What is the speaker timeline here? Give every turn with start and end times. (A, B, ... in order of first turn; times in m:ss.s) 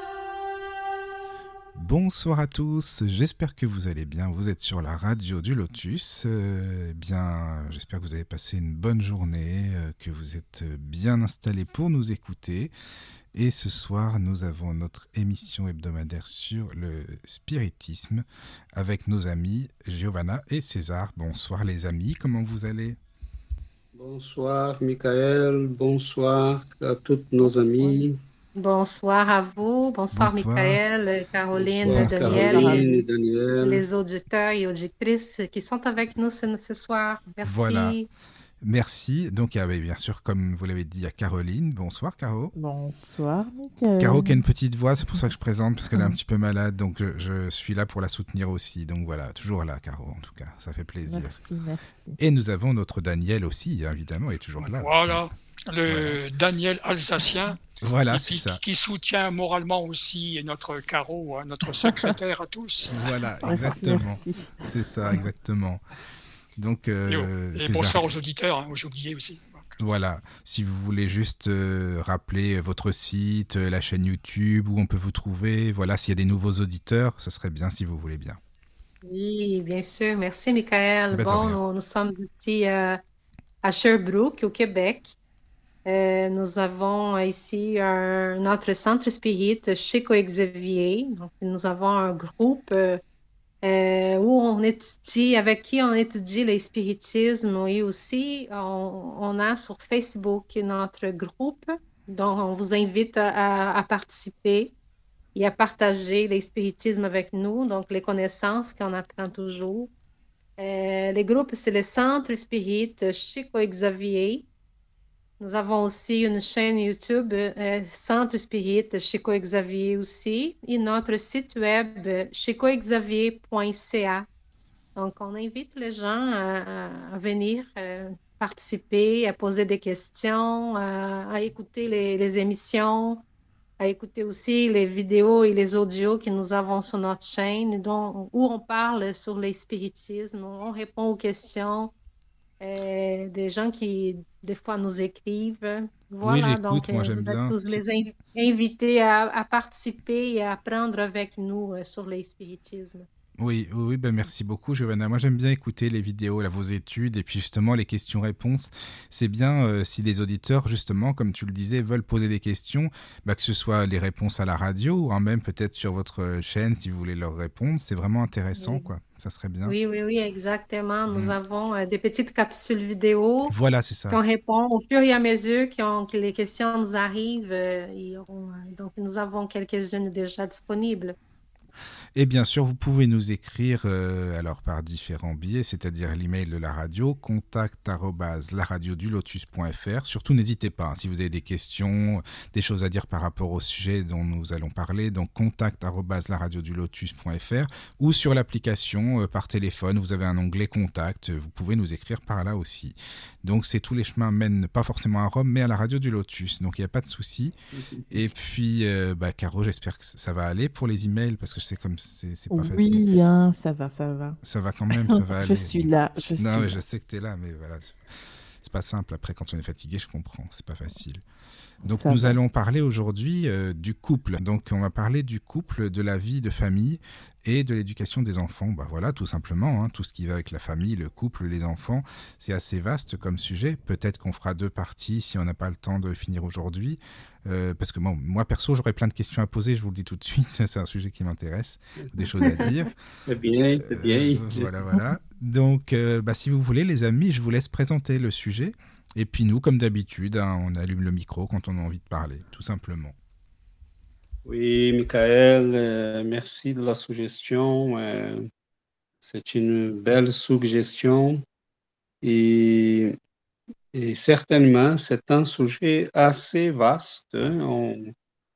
0:01.8-0:12.7 A
0:13.3-0:23.0 A
0:23.9-0:28.2 B
0:27.4-0:28.0 C
0:28.6-0:32.8 D
0:30.1-0:30.8 A
0:31.5-0:33.8 B
0:31.9-0:33.0 C
0:31.9-0:32.4 A
0:33.6-0:38.1 D
0:37.4-0:38.0 A
0:38.6-0:42.5 A
0:42.5-0:44.4 C
0:44.0-0:51.4 A
0:45.9-0:46.2 C
0:51.0-0:52.2 C
0:52.2-0:55.2 A
0:54.6-1:03.1 E
0:55.9-0:56.2 A
0:57.8-0:58.6 A
1:01.8-1:02.1 C
1:02.9-1:05.8 A
1:03.4-1:05.3 C
1:06.6-1:08.1 A
1:07.1-1:09.8 E
1:09.8-1:18.4 A
1:19.0-1:23.0 D
1:21.1-1:21.6 A
1:23.6-1:25.2 D
1:25.8-1:33.0 D
1:33.6-1:44.7 D
1:45.3-1:49.9 D
1:50.6-1:54.5 D
1:55.4-2:04.3 D
2:05.0-2:13.2 D
2:13.8-2:22.0 D
2:22.6-2:33.1 D
2:26.2-2:27.8 A
2:33.4-2:49.8 A
2:48.5-2:48.9 D
2:49.6-2:53.6 D
2:51.1-2:51.4 A
2:53.5-2:54.2 A
2:54.1-3:01.2 D
3:02.2-3:27.5 A
3:27.8-3:28.0 B
3:28.1-3:33.0 A
3:32.5-3:34.4 C
3:34.4-3:38.0 A
3:34.9-3:36.8 C
3:38.6-3:41.2 A
3:41.8-4:02.9 A
3:41.9-3:42.4 C
4:03.3-4:04.7 B
4:03.9-4:13.2 A
4:14.5-4:18.4 B
4:19.2-4:21.4 B
4:22.2-4:23.1 B
4:23.9-4:28.1 B